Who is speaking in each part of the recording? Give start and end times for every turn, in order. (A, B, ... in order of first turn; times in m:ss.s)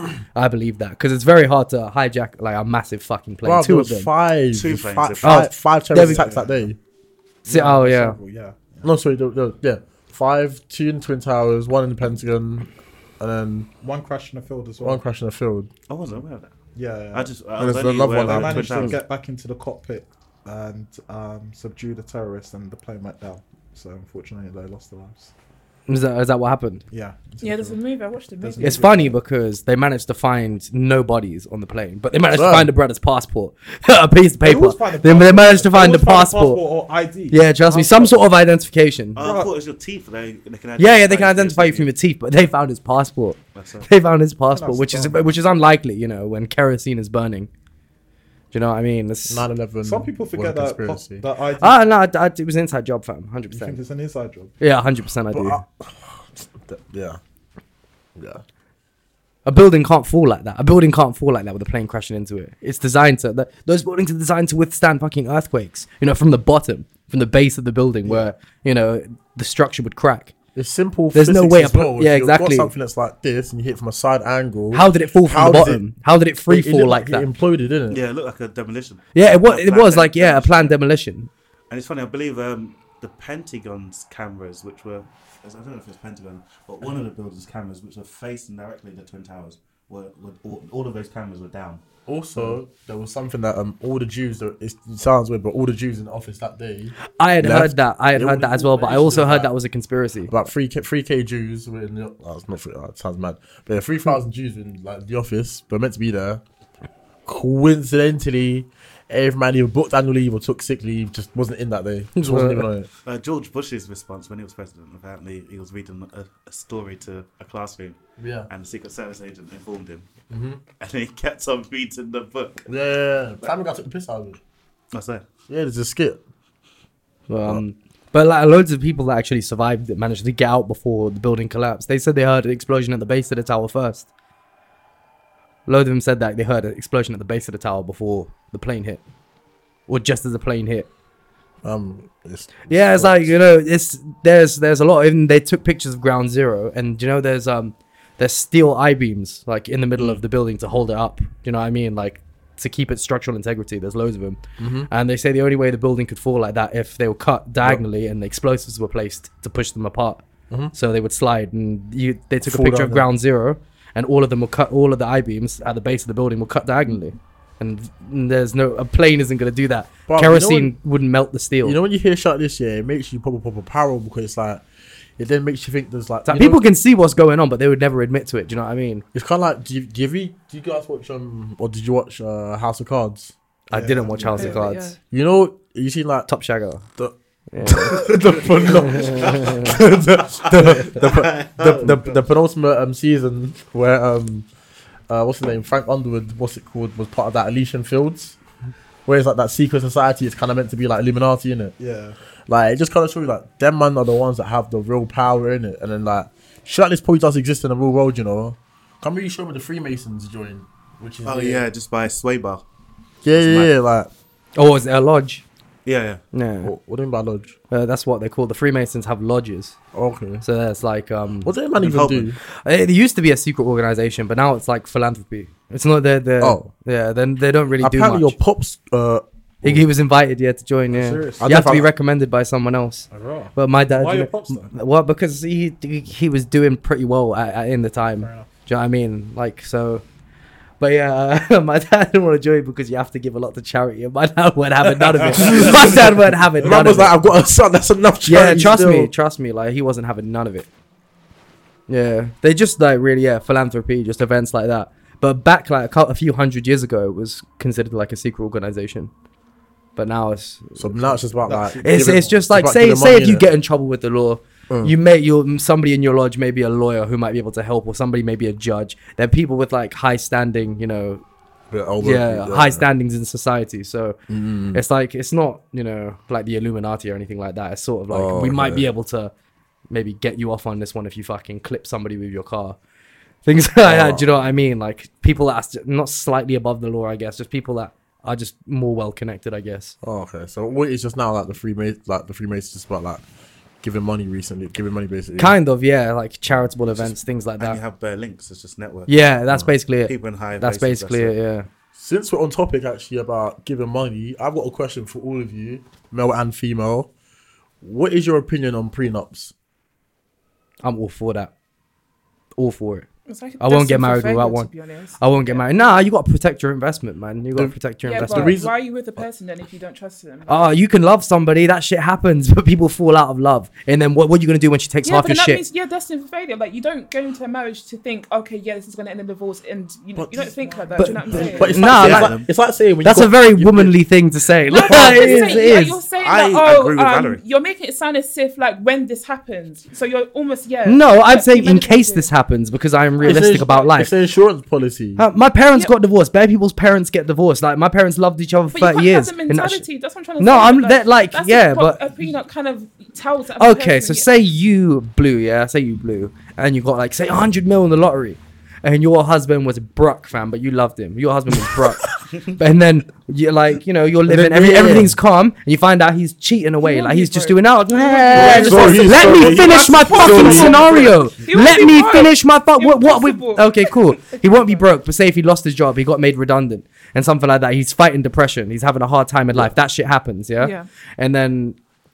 0:00.3-0:04.1 A
0:03.4-0:06.8 B
0:04.5-0:05.4 C
0:05.2-0:06.3 A
0:05.9-0:06.7 D
0:07.4-0:08.9 D
0:07.5-0:08.2 A
0:08.8-0:12.7 B
0:13.2-0:13.7 B
0:13.8-0:15.0 D
0:14.8-0:15.7 B
0:15.9-0:16.5 C
0:16.7-0:17.3 D
0:17.1-0:19.0 C
0:17.6-0:18.9 B
0:18.2-0:25.3 D
0:25.9-0:26.8 A
0:26.9-0:27.7 D
0:27.4-0:28.8 E
0:28.4-0:29.2 D
0:28.6-0:36.6 A
0:32.3-0:32.7 B
0:34.4-0:38.2 D
0:37.3-0:39.2 A
0:39.2-0:41.9 C
0:39.2-0:39.5 D
0:40.8-0:47.5 A
0:43.5-0:43.9 C
0:44.5-0:45.2 D
0:48.5-0:49.4 A
0:49.3-0:51.2 B
0:49.8-0:51.8 D
0:51.6-0:53.8 A
0:53.5-0:54.5 D
0:54.6-0:55.6 A
0:55.3-0:57.2 B
0:58.2-0:58.4 B
0:59.4-1:10.3 A
1:10.5-1:15.9 B
1:11.1-1:12.7 A
1:14.7-1:17.3 A
1:16.5-1:18.0 B
1:17.9-1:20.7 C
1:19.1-1:21.3 A
1:21.7-1:31.8 C
1:32.1-1:39.5 B
1:37.2-1:40.4 A
1:38.9-1:39.2 C
1:40.3-1:46.4 B
1:47.2-1:52.9 B
1:52.2-1:52.7 A
1:53.0-1:58.0 C
1:58.2-1:58.5 B
1:58.5-2:00.1 C
2:00.3-2:00.6 B
2:00.8-2:02.6 C
2:02.7-2:04.4 B
2:04.9-2:05.2 C
2:05.5-2:06.2 B
2:07.3-2:14.1 A
2:15.7-2:19.0 A
2:19.9-2:20.9 A
2:21.6-2:23.4 B
2:22.7-2:51.8 A
2:34.6-2:34.9 B
2:42.4-2:43.1 B
2:50.1-2:50.7 B
2:51.6-2:54.6 B
2:55.2-2:56.6 B
2:56.2-2:59.0 A
2:59.1-3:06.3 B
3:03.7-3:05.0 A
3:04.3-3:05.0 E
3:06.3-3:06.8 A
3:07.0-3:14.5 B
3:07.5-3:08.0 A
3:08.0-3:12.2 C
3:08.7-3:09.7 A
3:15.1-3:18.4 B
3:19.0-3:21.7 B
3:21.8-3:22.2 D
3:22.5-3:31.6 B
3:31.2-3:32.6 C
3:33.2-3:34.1 B
3:33.4-3:33.7 C
3:34.6-3:35.4 A
3:35.8-3:36.2 C
3:36.3-3:36.7 A
3:36.6-3:37.5 B
3:37.7-3:39.8 A
3:39.9-3:40.4 B
3:40.4-3:41.5 A
3:41.4-3:42.4 B
3:41.8-3:42.2 C
3:42.6-3:48.4 A
3:46.4-3:46.7 B
3:47.8-3:49.8 B
3:49.6-4:00.0 A
3:50.9-3:51.8 D
3:51.4-3:51.9 B
3:53.1-3:54.7 D
3:58.2-3:58.5 D
4:00.8-4:07.2 A
4:04.8-4:06.0 D
4:05.3-4:09.1 B
4:08.2-4:10.7 A
4:11.9-4:19.1 A
4:20.0-4:21.2 A
4:20.8-4:23.5 B
4:21.4-4:22.4 D
4:21.8-4:31.2 A
4:24.7-4:24.9 B
4:31.7-4:32.8 B
4:32.0-4:34.2 A
4:34.3-4:34.8 B
4:34.7-4:39.3 A
4:38.1-4:38.9 B
4:39.9-4:42.8 A
4:43.4-4:50.0 A
4:43.8-4:44.4 B
4:50.0-4:53.2 B
4:53.8-4:55.6 B
4:55.4-4:57.8 A
4:57.0-5:01.3 C
4:59.1-5:01.7 A
5:02.0-5:07.1 B
5:07.8-5:09.5 B
5:10.8-5:11.5 A
5:12.6-5:13.1 A
5:13.3-5:16.0 E
5:13.6-5:18.6 A
5:17.5-5:19.2 B
5:18.0-5:20.8 E
5:20.5-5:25.6 A
5:25.0-5:32.3 E
5:30.2-5:34.0 B
5:30.7-5:31.8 D
5:31.0-5:32.3 A
5:31.8-5:32.5 C
5:33.0-5:36.0 A
5:34.7-5:42.3 E
5:34.8-5:35.6 B
5:36.2-5:37.4 C
5:40.8-5:44.1 A
5:43.2-5:45.2 B
5:43.3-5:43.9 E
5:45.2-5:49.8 A
5:48.7-5:54.3 E
5:50.4-5:52.0 A
5:53.6-6:21.8 A
6:04.3-6:05.2 B
6:06.8-6:14.8 E
6:08.3-6:11.3 D
6:08.3-6:10.8 B
6:20.6-6:20.9 E